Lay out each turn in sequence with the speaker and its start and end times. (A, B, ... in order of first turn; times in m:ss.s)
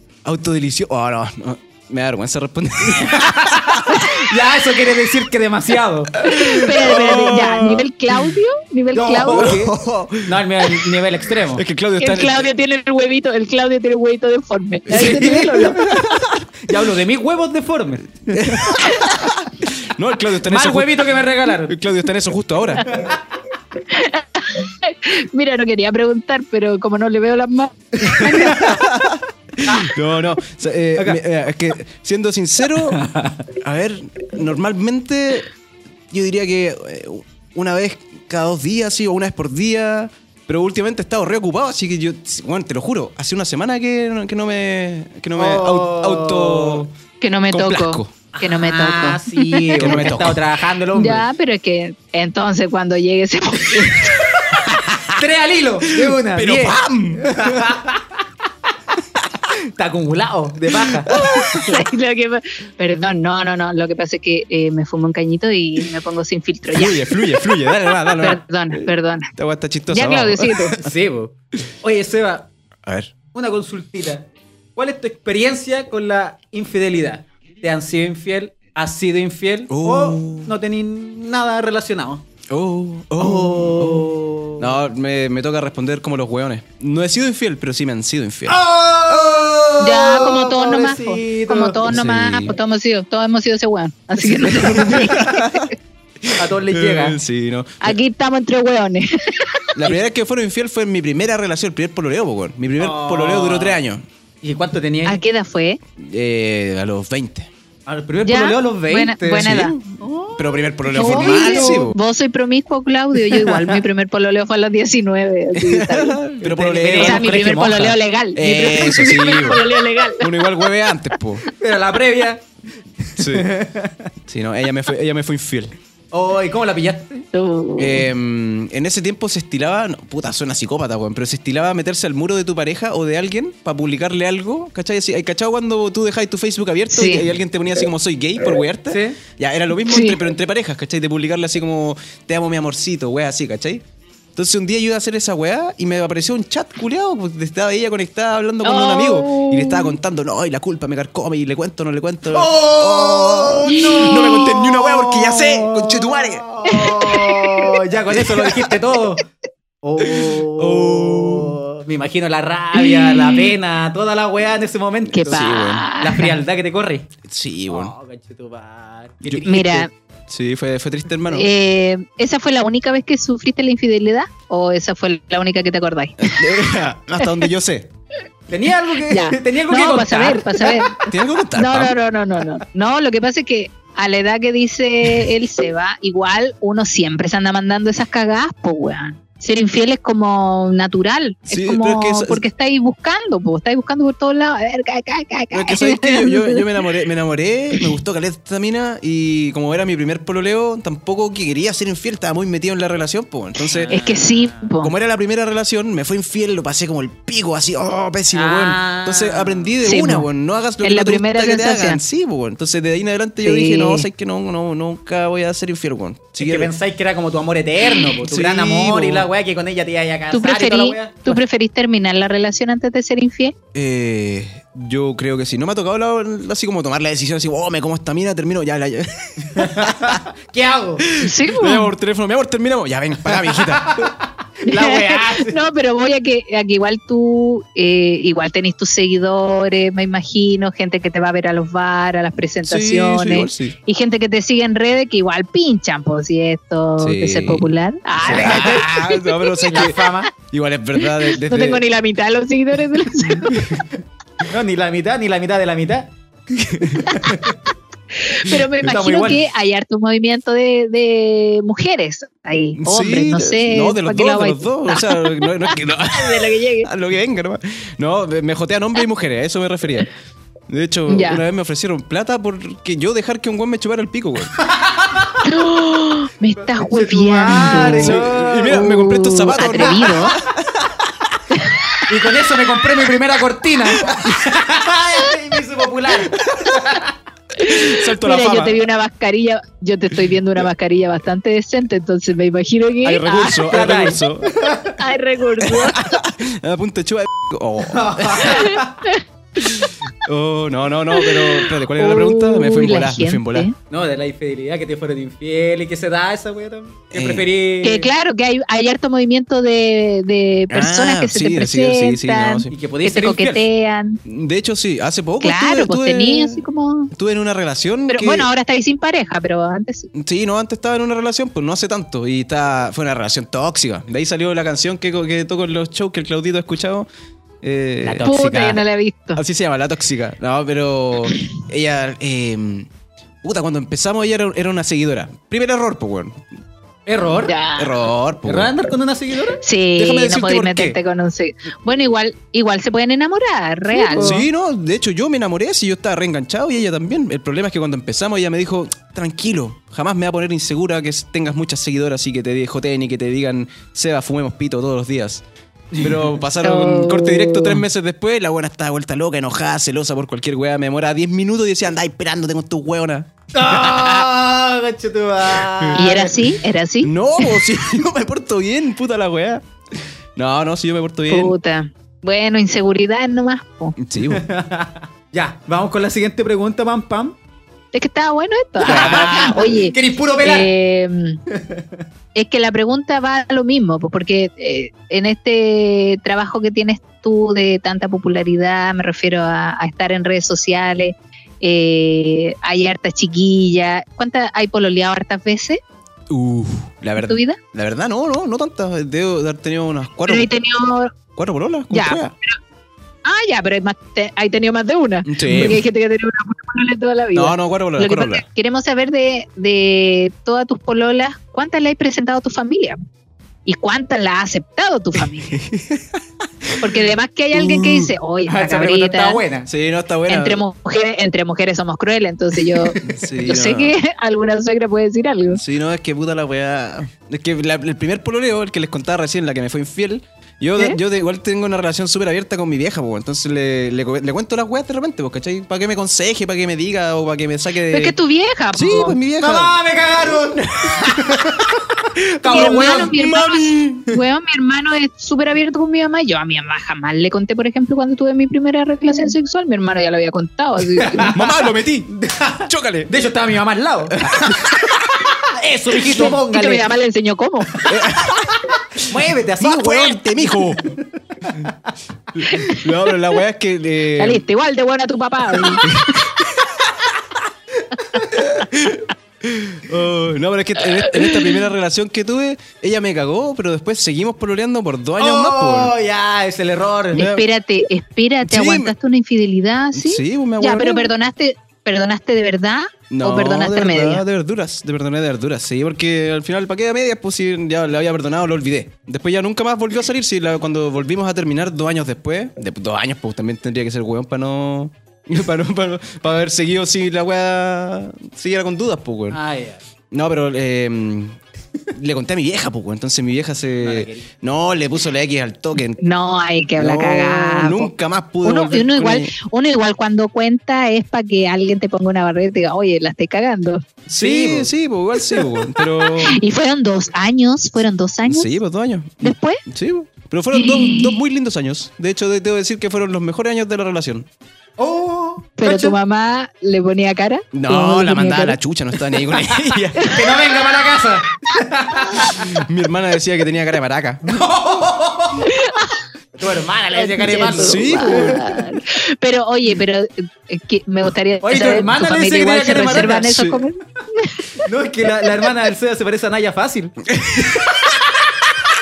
0:00.2-0:04.3 A
0:02.8-0:06.2 B
0:06.2-0:08.4 A
0:06.2-0:09.6 C
0:08.9-0:11.6 B
0:09.3-0:10.9 A
0:11.5-0:12.5 A
0:12.0-0:15.8 C
0:14.9-0:15.9 B
0:15.0-0:16.5 A
0:16.6-0:18.9 B
0:18.3-0:21.1 A
0:20.4-0:21.8 B
0:21.6-0:22.9 A
0:22.9-0:23.2 B
0:23.9-0:28.8 C
0:28.0-0:28.8 B
0:28.0-0:35.5 A
0:32.9-0:33.4 B
0:36.1-0:46.9 A
0:45.4-0:46.9 B
0:47.2-0:50.0 C
0:47.5-0:48.1 A
0:48.3-0:51.2 B
0:49.8-0:50.4 A
0:50.9-0:54.5 C
0:54.2-0:58.2 B
0:55.9-0:57.7 A
0:59.5-1:01.1 B
1:01.0-1:01.7 A
1:01.1-1:09.3 C
1:06.7-1:10.8 A
1:09.9-1:10.8 C
1:10.8-1:12.5 B
1:12.8-1:13.1 A
1:13.3-1:22.2 B
1:19.7-1:20.5 A
1:22.5-1:29.6 A
1:23.2-1:24.7 B
1:28.5-1:31.8 B
1:29.8-1:35.7 C
1:31.8-1:32.6 A
1:34.2-1:35.2 B
1:34.5-1:38.0 A
1:36.4-1:37.2 B
1:37.8-1:39.7 C
1:39.8-1:44.0 A
1:42.8-1:43.8 B
1:44.4-1:45.2 B
1:45.1-1:45.8 C
1:46.0-1:47.5 A
1:47.9-1:51.9 B
1:48.2-1:49.8 C
1:49.4-1:52.0 A
1:51.0-1:56.2 C
1:53.3-1:53.8 B
1:55.6-1:57.4 A
1:56.4-1:58.0 B
1:57.0-2:00.7 C
1:58.4-1:59.7 A
2:00.2-2:01.5 A
2:01.6-2:02.5 B
2:03.0-2:04.1 B
2:03.2-2:03.5 A
2:04.3-2:05.8 A
2:06.1-2:07.3 B
2:07.3-2:08.1 C
2:07.8-2:23.8 A
2:16.9-2:17.3 C
2:18.9-2:19.2 B
2:19.9-2:20.2 C
2:24.4-2:36.4 A
2:28.6-2:30.0 C
2:32.3-2:39.2 B
2:33.8-2:34.4 C
2:36.7-2:37.7 C
2:38.1-2:38.8 A
2:39.8-2:47.1 B
2:40.0-2:41.6 A
2:42.8-2:43.5 C
2:45.2-2:46.4 C
2:45.2-2:45.9 A
2:47.2-2:47.9 A
2:47.7-2:49.8 B
2:49.2-2:51.5 A
2:49.5-2:49.9 C
2:51.3-2:56.6 C
2:56.2-2:57.9 A
2:58.5-3:01.0 B
2:59.1-3:16.8 C
3:01.0-3:02.0 A
3:11.5-3:12.4 A
3:15.5-3:24.0 A
3:23.7-3:24.6 B
3:23.9-3:24.9 C
3:24.8-3:36.7 A
3:28.3-3:29.7 B
3:29.8-3:30.3 C
3:30.8-3:32.0 C
3:33.4-3:34.1 C
3:36.4-3:41.4 B
3:38.2-3:39.3 A
3:40.3-3:43.6 C
3:43.7-3:50.2 A
3:49.4-3:51.1 B
3:51.1-3:54.1 A
3:51.2-3:51.9 C
3:53.3-3:55.6 B
3:54.7-4:09.8 C
4:02.6-4:03.8 A
4:07.0-4:07.7 A
4:08.2-4:11.8 A
4:08.2-4:10.3 B
4:11.0-4:13.8 C
4:13.5-4:13.8 A
4:14.4-4:17.6 B
4:16.7-4:17.1 A
4:18.3-4:26.9 C
4:18.8-4:19.4 B
4:22.8-4:30.1 A
4:30.7-4:34.6 A
4:31.1-4:31.4 C
4:34.6-4:35.4 B
4:35.4-4:40.4 C
4:36.6-4:38.8 B
4:37.5-4:40.9 A
4:41.6-4:41.9 C
4:42.1-4:47.1 B
4:44.0-4:44.4 A
4:47.6-4:53.7 C
4:47.6-4:48.8 A
4:53.0-4:54.5 A
4:53.7-4:55.0 B
4:55.0-4:56.2 C
4:55.6-4:58.7 A
4:57.8-4:59.0 B
4:58.5-4:59.2 C
4:59.6-5:03.7 A
5:01.1-5:03.7 C
5:03.9-5:08.1 B
5:07.1-5:07.5 A
5:07.8-5:14.2 C
5:10.7-5:12.7 A
5:12.7-5:13.7 B
5:14.2-5:18.5 A
5:15.4-5:17.1 C
5:18.1-5:20.1 C
5:20.1-5:27.1 A
5:27.6-5:28.3 A
5:28.0-5:28.8 B
5:28.2-5:29.4 C
5:29.4-5:32.9 A
5:33.4-5:36.4 A
5:37.1-5:37.6 B
5:37.5-5:38.0 C
5:37.8-5:38.7 A
5:38.4-5:39.6 B
5:39.6-5:44.4 C
5:40.0-5:41.0 A
5:43.9-5:44.4 B
5:44.2-5:55.4 A
5:55.9-5:56.4 B
5:56.0-6:04.3 A
5:56.6-5:57.8 C
6:03.5-6:06.4 B
6:05.6-6:06.0 A
6:06.0-6:07.7 C
6:07.0-6:11.5 A
6:11.3-6:14.0 C
6:14.0-6:14.4 A
6:14.2-6:17.4 B
6:17.9-6:21.4 C
6:18.8-6:20.7 B
6:18.8-6:19.5 A
6:21.5-6:22.0 B
6:22.4-6:35.8 C
6:36.3-6:40.5 A
6:37.2-6:37.6 C
6:40.3-6:41.2 C
6:41.4-6:42.3 A
6:41.9-6:42.6 C
6:43.2-6:53.0 C
6:45.3-6:45.8 A
6:47.3-6:48.4 A
6:53.7-6:55.6 C
6:55.5-6:57.0 A
6:56.8-6:59.4 C
6:57.5-6:58.1 A
6:58.5-6:59.7 B
6:59.7-7:00.6 A
7:00.3-7:05.6 C
7:03.0-7:04.0 A
7:05.5-7:18.2 A
7:17.9-7:19.2 C
7:18.7-7:19.7 A
7:19.4-7:23.1 B
7:20.3-7:21.6 A
7:22.5-7:31.4 C
7:22.5-7:24.1 A
7:31.0-7:36.9 B
7:31.3-7:32.1 A
7:32.7-7:33.1 A
7:34.2-7:35.1 A
7:36.1-7:37.7 C
7:37.8-7:41.9 B
7:37.9-7:38.6 A
7:39.6-7:41.0 A
7:42.3-7:44.4 A
7:42.5-7:43.2 C
7:44.2-7:45.9 C
7:45.8-7:46.7 A
7:47.8-7:48.4 B
7:48.4-7:55.9 A
7:51.0-7:51.6 C
7:55.2-7:57.2 B
7:57.1-7:57.5 A
7:57.2-8:04.2 C
7:58.4-7:58.9 A
7:59.9-8:01.1 A
8:03.1-8:19.4 A
8:19.3-8:19.8 B
8:20.1-8:21.4 A
8:21.9-8:26.0 A
8:23.8-8:24.3 B
8:26.0-8:27.9 C
8:26.8-8:29.3 A
8:28.4-8:33.8 C
8:34.1-8:34.7 B
8:34.1-8:36.4 A
8:36.0-8:38.6 C
8:38.3-8:44.3 A
8:39.2-8:39.6 C
8:40.5-8:41.2 C
8:44.8-8:46.0 B
8:45.6-8:48.6 C
8:47.5-8:50.1 A
8:49.3-8:52.5 B
8:50.0-8:50.6 C
8:52.2-8:54.4 A
8:54.2-8:55.5 B
8:55.4-8:56.0 C
8:56.4-8:58.5 B
8:56.9-9:04.6 C
8:57.5-8:58.6 A
9:01.4-9:03.4 B
9:03.1-9:03.6 A
9:04.6-9:07.6 B
9:07.1-9:08.0 A